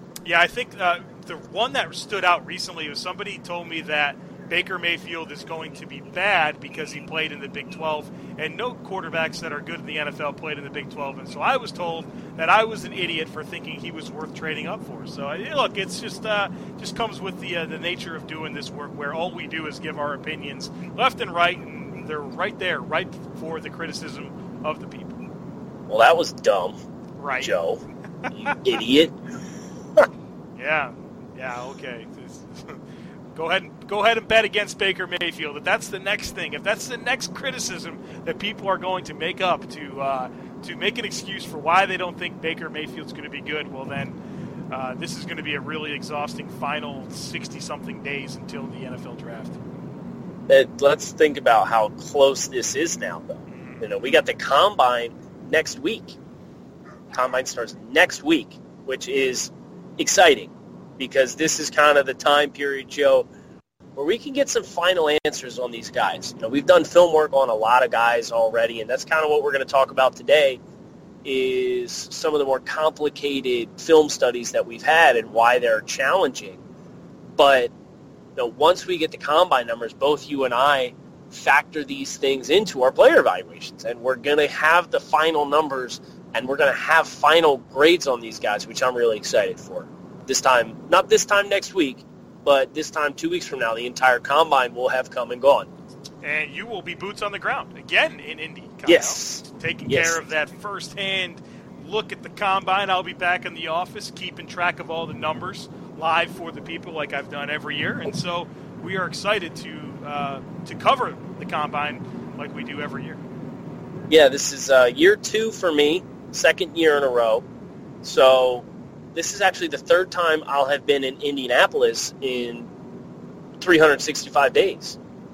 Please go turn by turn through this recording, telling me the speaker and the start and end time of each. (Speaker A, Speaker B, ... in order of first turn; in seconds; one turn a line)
Speaker A: 0.2-25.2
Speaker B: 25.9-26.8
Speaker A: 27.2-27.5
Speaker B: 27.4-27.8
Speaker A: 28.2-28.5
Speaker B: 28.4-29.1
Speaker A: 30.6-32.8
Speaker A: 33.3-44.2
Speaker A: 44.7-49.6
Speaker B: 50.5-56.1
Speaker A: 53.5-53.8
Speaker B: 57.1-63.3
Speaker B: 64.0-70.6
Speaker B: 71.2-76.6
Speaker B: 77.4-77.7
Speaker B: 78.3-95.7
Speaker A: 96.2-113.2
Speaker B: 98.8-100.2
Speaker B: 114.1-117.4
Speaker B: 118.0-122.7
Speaker B: 123.6-125.0